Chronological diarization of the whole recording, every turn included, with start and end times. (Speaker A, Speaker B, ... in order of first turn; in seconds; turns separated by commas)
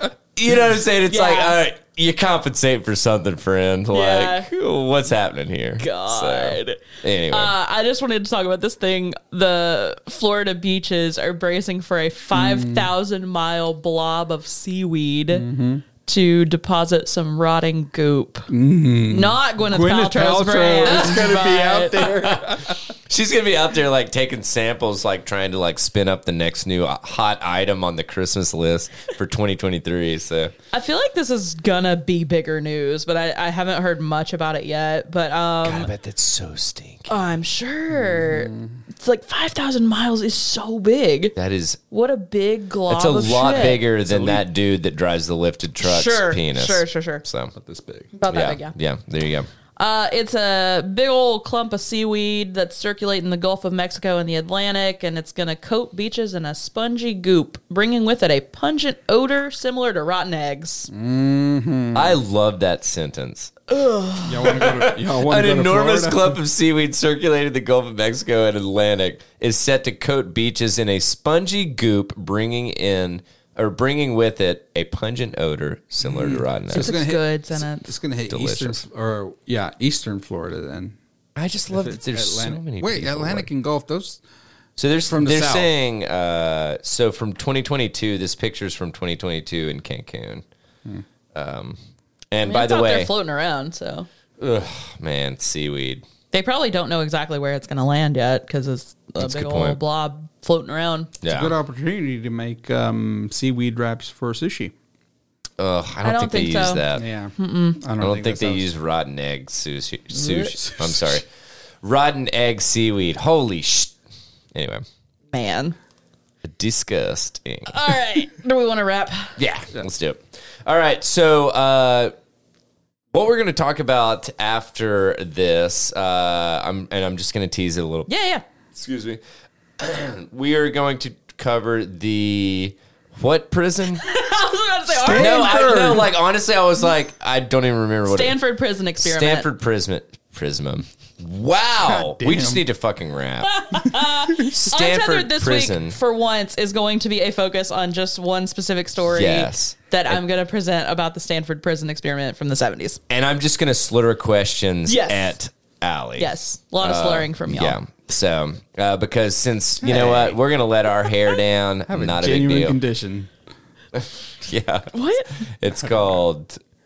Speaker A: 0.3-7.5, Speaker B: 1.1-1.6, Speaker B: 3.9-4.5, Speaker B: 5.8-6.8, Speaker B: 7.3-15.4, Speaker C: 12.3-12.9, Speaker C: 15.3-15.8, Speaker B: 16.0-18.5, Speaker C: 18.5-22.8, Speaker B: 19.1-22.1, Speaker A: 20.9-21.3, Speaker A: 22.1-30.5, Speaker B: 30.7-35.9, Speaker A: 35.6-37.1, Speaker B: 37.1-41.3, Speaker C: 37.9-38.8, Speaker A: 41.4-41.8, Speaker B: 41.9-43.8, Speaker A: 42.9-47.5, Speaker C: 44.0-44.4, Speaker B: 45.8-47.2, Speaker C: 47.5-48.1, Speaker B: 48.1-48.7, Speaker A: 48.3-49.5, Speaker B: 49.8-60.9, Speaker C: 60.9-62.1, Speaker A: 61.9-63.5, Speaker B: 63.7-64.7, Speaker C: 64.2-66.4, Speaker A: 64.5-76.9, Speaker C: 76.0-81.0, Speaker B: 76.7-77.9, Speaker A: 78.3-78.8, Speaker A: 81.3-83.5, Speaker C: 81.7-84.2, Speaker A: 84.8-90.4, Speaker C: 85.1-85.7, Speaker A: 91.3-91.8, Speaker A: 92.3-93.1, Speaker B: 92.4-94.1, Speaker A: 94.4-96.0, Speaker B: 96.3-101.1, Speaker A: 99.2-99.8, Speaker A: 101.2-101.5, Speaker C: 101.3-104.7, Speaker A: 105.6-107.0, Speaker B: 106.0-106.8, Speaker C: 106.9-108.7, Speaker B: 107.4-107.8, Speaker A: 108.0-111.2, Speaker B: 110.1-110.5, Speaker C: 110.7-111.2, Speaker A: 111.8-113.9, Speaker A: 114.5-114.8, Speaker B: 115.3-115.8, Speaker A: 116.4-117.8, Speaker B: 117.7-119.3, Speaker A: 119.4-122.1, Speaker A: 123.1-128.1, Speaker B: 128.1-128.4, Speaker A: 128.7-129.2, Speaker A: 129.8-134.0, Speaker B: 134.0-135.6, Speaker C: 134.9-136.1, Speaker A: 135.1-138.3, Speaker B: 138.1-139.5, Speaker A: 139.0-146.0, Speaker C: 141.8-142.6, Speaker B: 143.5-153.0, Speaker A: 149.1-150.2, Speaker A: 153.1-162.8, Speaker B: 154.9-155.3, Speaker B: 156.2-157.8, Speaker C: 159.8-160.3, Speaker C: 161.9-163.3, Speaker A: 163.9-164.9, Speaker B: 164.9-165.3, Speaker A: 165.5-166.6